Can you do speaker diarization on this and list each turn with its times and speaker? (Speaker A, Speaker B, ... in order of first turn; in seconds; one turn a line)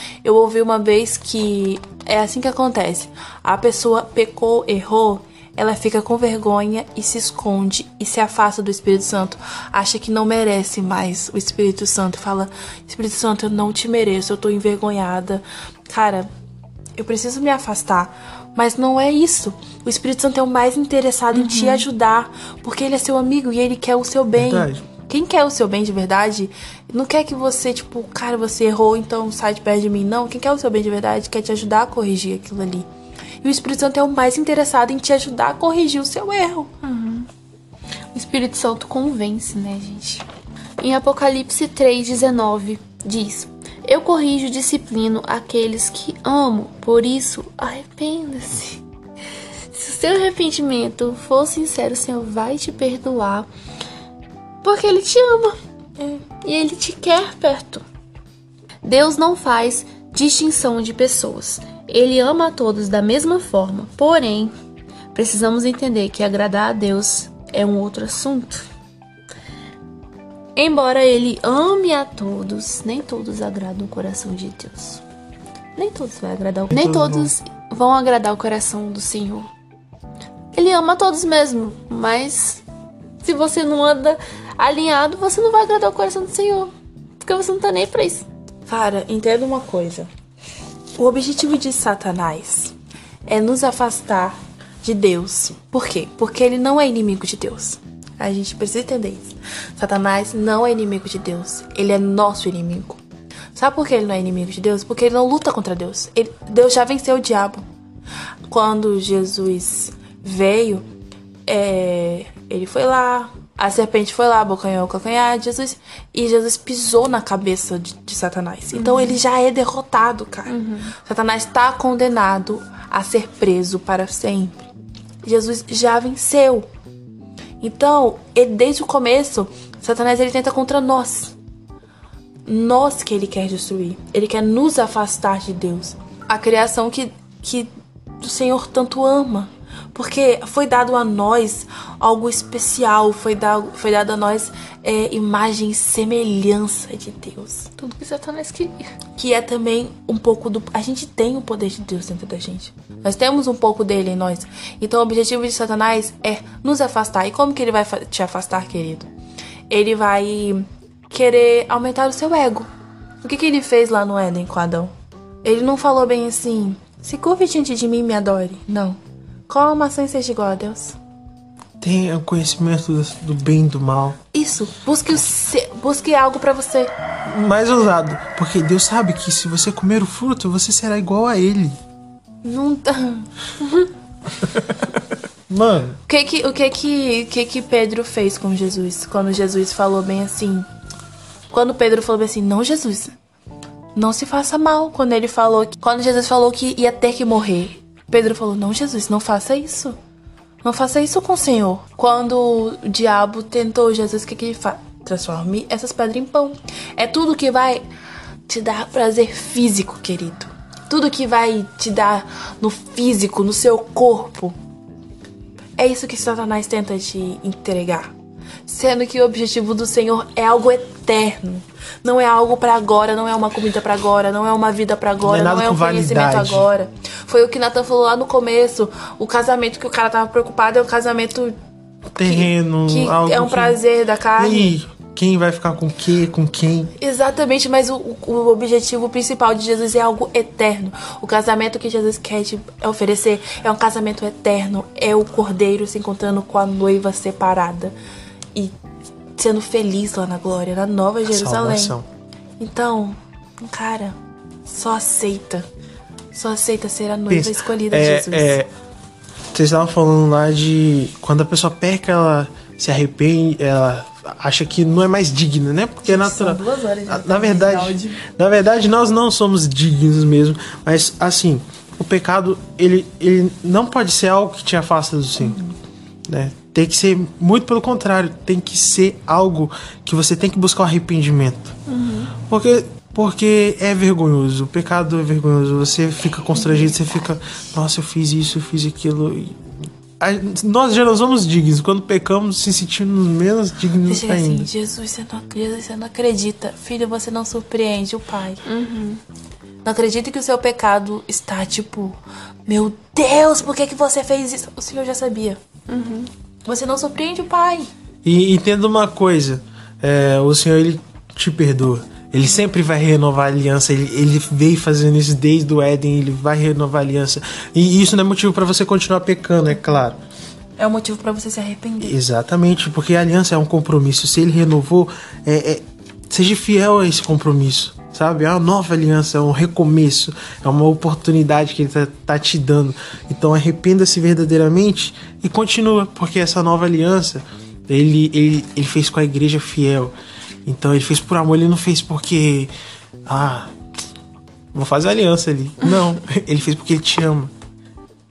Speaker A: 0.2-16.3
Speaker A: 16.9-32.9
Speaker B: 21.3-21.9
Speaker C: 24.4-24.9
Speaker A: 33.4-36.7
Speaker B: 36.8-37.3
Speaker B: 38.1-40.3
Speaker B: 40.8-48.8
Speaker B: 49.7-53.5
Speaker B: 54.6-55.6
Speaker B: 56.3-57.8
Speaker B: 58.8-64.5
Speaker B: 65.1-68.6
Speaker B: 70.5-75.0
Speaker B: 75.8-79.5
Speaker C: 76.7-77.3
Speaker B: 80.5-82.6
Speaker B: 83.2-88.3
Speaker A: 88.7-90.1
Speaker A: 91.0-92.7
Speaker A: 93.3-103.0
Speaker A: 103.5-107.6
Speaker A: 108.5-110.8
Speaker A: 111.5-124.7
Speaker B: 118.7-119.2
Speaker B: 120.5-120.9
Speaker A: 125.2-126.7
Speaker A: 127.6-131.3
Speaker A: 132.4-137.7
Speaker A: 138.2-147.7
Speaker B: 147.8-148.9
Speaker A: 149.2-159.1
Speaker A: 159.7-162.7
Speaker A: 163.2-164.9
Speaker A: 165.4-169.0
Speaker A: 169.5-171.0
Speaker C: 171.8-174.2
Speaker A: 174.3-176.9
Speaker C: 177.3-181.8
Speaker A: 182.4-183.8
Speaker C: 184.4-186.0
Speaker A: 186.1-190.7
Speaker A: 191.5-193.1
Speaker A: 193.9-200.0
Speaker A: 200.6-207.8
Speaker A: 208.5-214.6
Speaker A: 215.8-218.1
Speaker A: 218.7-231.6
Speaker C: 225.2-226.7
Speaker C: 232.1-233.8
Speaker A: 232.2-234.7
Speaker C: 234.4-236.9
Speaker A: 237.0-247.9
Speaker A: 249.4-252.0
Speaker C: 251.3-252.1
Speaker A: 252.6-255.7
Speaker A: 256.3-258.6
Speaker C: 257.3-258.7
Speaker C: 259.5-275.6
Speaker A: 266.1-268.2
Speaker A: 275.4-275.7
Speaker C: 276.3-281.7
Speaker B: 281.9-282.3
Speaker C: 282.4-294.7
Speaker A: 294.1-298.6
Speaker B: 298.6-299.2
Speaker A: 299.9-305.6
Speaker B: 305.9-306.3
Speaker A: 306.7-307.9
Speaker C: 308.2-320.2
Speaker A: 320.8-322.1
Speaker C: 322.0-340.1
Speaker C: 340.6-342.7
Speaker C: 343.3-343.7
Speaker C: 344.7-347.5